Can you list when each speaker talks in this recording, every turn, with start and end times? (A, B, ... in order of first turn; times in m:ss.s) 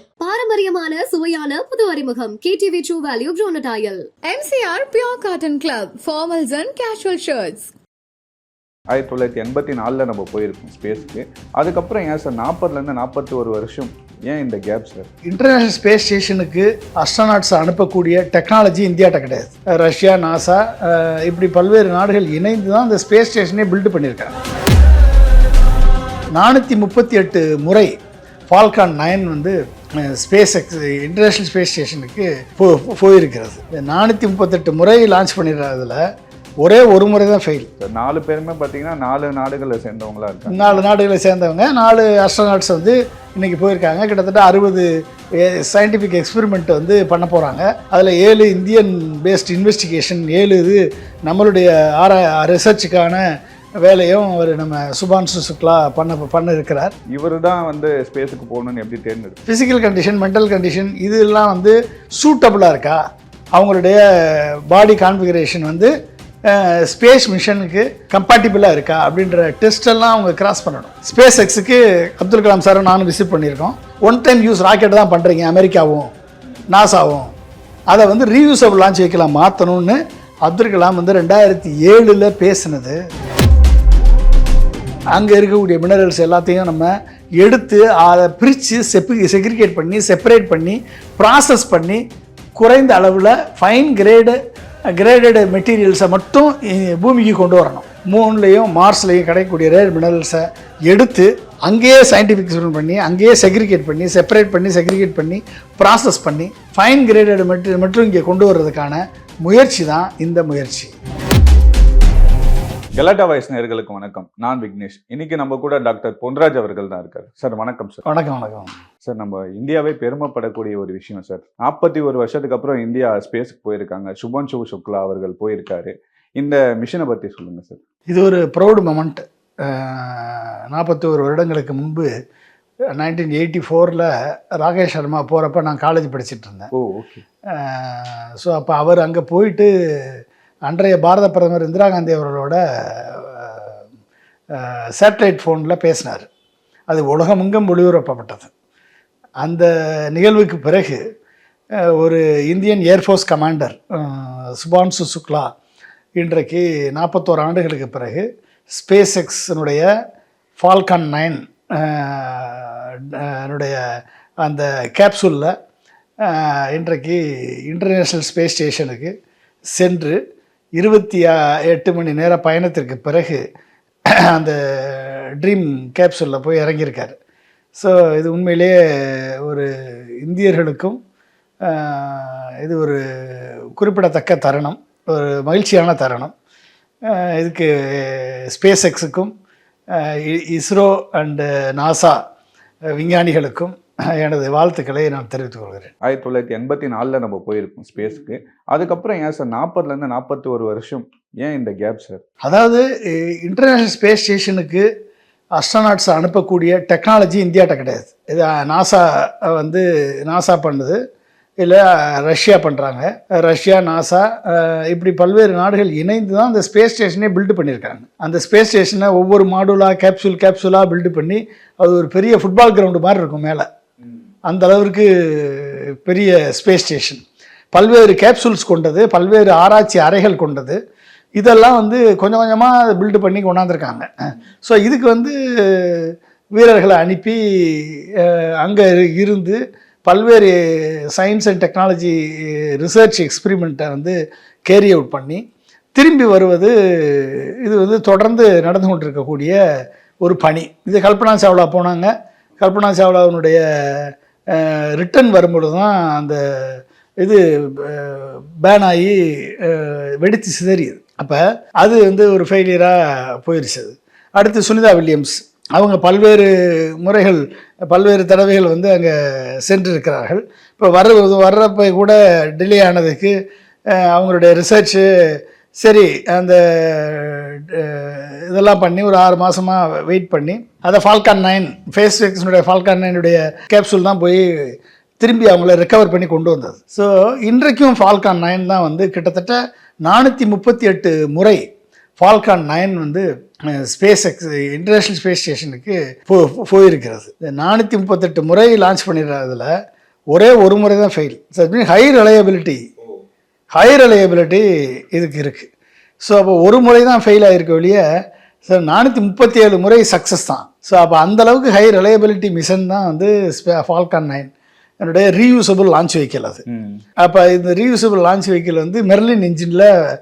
0:00.2-0:04.1 A
0:04.2-0:07.7 B
0:08.9-0:15.1 C
0:15.3-0:24.3 D
0:26.4-0:27.9 D
0:28.5-0:36.0 D
0:36.6-0:37.7 D
0:37.8-0:40.8 C
0:40.5-0:53.2 D
0:53.8-0:56.9 D
0:57.1-0:59.4 C
0:59.5-1:03.0 D
1:03.5-1:05.9 D
1:06.5-1:16.1 D
1:16.7-1:17.3 D
1:17.9-1:23.0 D
1:25.1-1:32.0 D
1:32.6-1:34.4 D
1:34.9-1:51.0 D
1:53.0-1:58.0 C
1:58.1-1:58.7 D
1:59.0-2:07.8 C
2:08.1-2:12.1 D
2:12.9-2:16.7 D
2:16.7-2:17.2 C
2:17.5-2:20.1 D
2:20.7-2:23.7 D
2:24.5-2:26.3 D
2:26.9-2:28.5 D
2:29.4-2:31.0 D
2:31.8-2:35.5 D
2:36.2-2:39.9 D
2:40.6-2:45.5 D
2:46.2-2:49.1 D
2:49.8-2:50.2 D
2:50.8-2:53.4 D
2:54.3-2:57.2 D
2:57.8-2:59.7 D
3:00.2-3:01.0 D
3:01.6-3:06.3 D
3:07.1-3:09.3 D
3:09.9-3:12.2 D
3:13.0-3:15.9 D
3:16.0-3:22.2 C
3:22.4-3:24.8 D
3:25.6-3:31.0 D
3:31.6-3:43.7 D
3:44.5-3:47.2 D
3:47.7-3:50.8 D
3:51.4-4:00.6 D
4:01.1-4:05.4 D
4:06.0-4:09.6 D
4:10.2-4:33.4 D
4:33.9-4:51.6 D
4:52.2-4:59.7 D
5:00.3-5:02.8 D
5:03.7-5:05.7 D
5:06.2-5:08.0 D
5:08.7-5:14.5 D
5:15.0-5:16.6 D
5:16.7-5:17.0 C
5:17.2-5:19.9 D